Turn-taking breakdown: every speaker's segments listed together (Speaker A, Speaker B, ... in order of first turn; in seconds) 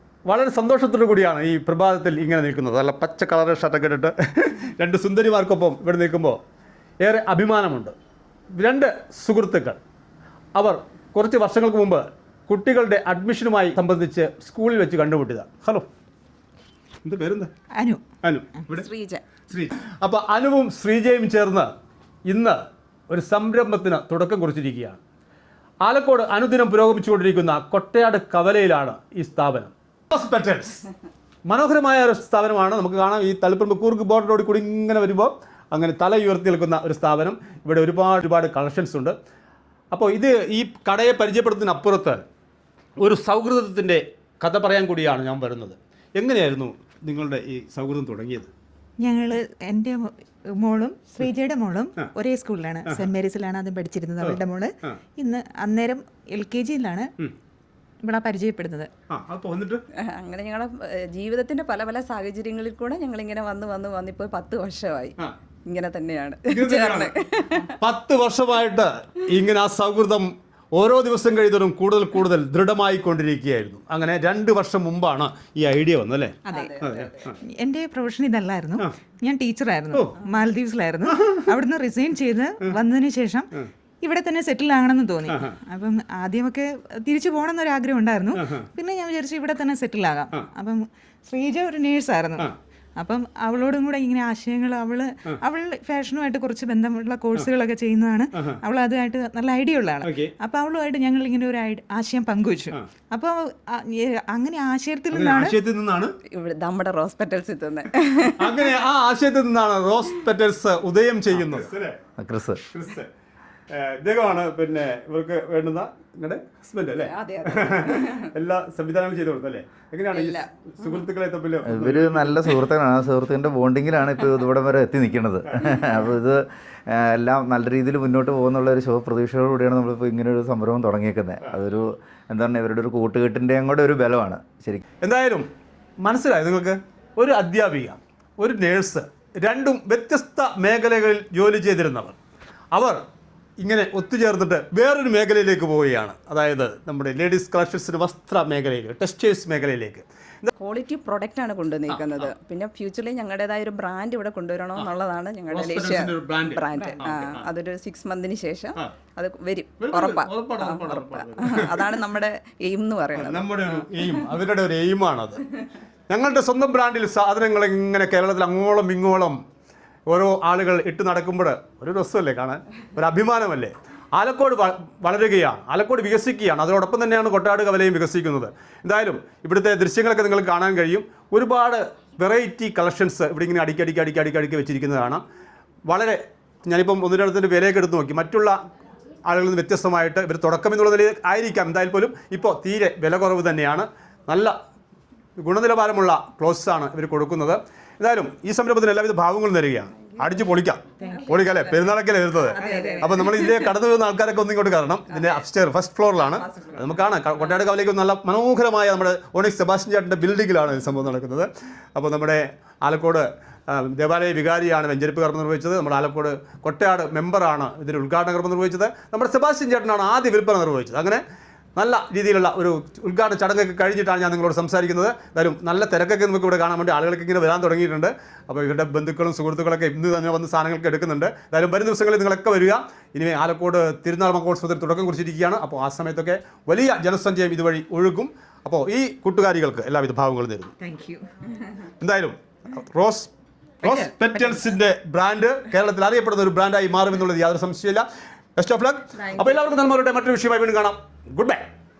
Speaker A: 0.2-6.4, 7.0-7.9, 8.6-9.8, 10.5-15.9, 17.0-17.5, 18.2-18.9, 19.5-21.7, 22.2-25.0, 25.8-30.8, 31.4-39.1, 39.9-42.2, 43.0-48.5, 54.2-55.0, 59.1-59.8, 66.5-77.4, 79.9-80.2, 81.1-81.5, 85.3-85.5, 88.3-88.7, 100.0-100.3, 105.1-106.1, 108.3-112.0, 112.7-113.1, 113.7-122.6, 135.0-135.5, 136.0-142.2, 142.7-143.0, 143.6-150.5, 151.9-152.3, 155.5-157.5, 159.8-162.0, 163.1-165.4, 166.1-169.4, 170.1-185.2, 185.8-188.6, 189.2-194.5, 195.4-221.2, 221.8-240.7, 242.0-251.6
Speaker B: 18.7-19.2, 60.0-67.7, 76.5-77.3, 106.3-108.7, 117.0-118.3, 120.1-121.0, 150.6-164.2, 201.0-201.7, 202.4-203.7, 205.1-205.4, 206.2-207.0
Speaker C: 49.0-57.1, 58.0-58.9, 76.5-76.8, 77.4-105.5, 201.0-201.5, 202.6-203.1, 240.8-241.5, 243.8-244.7
Speaker D: 112.2-112.6, 121.6-134.8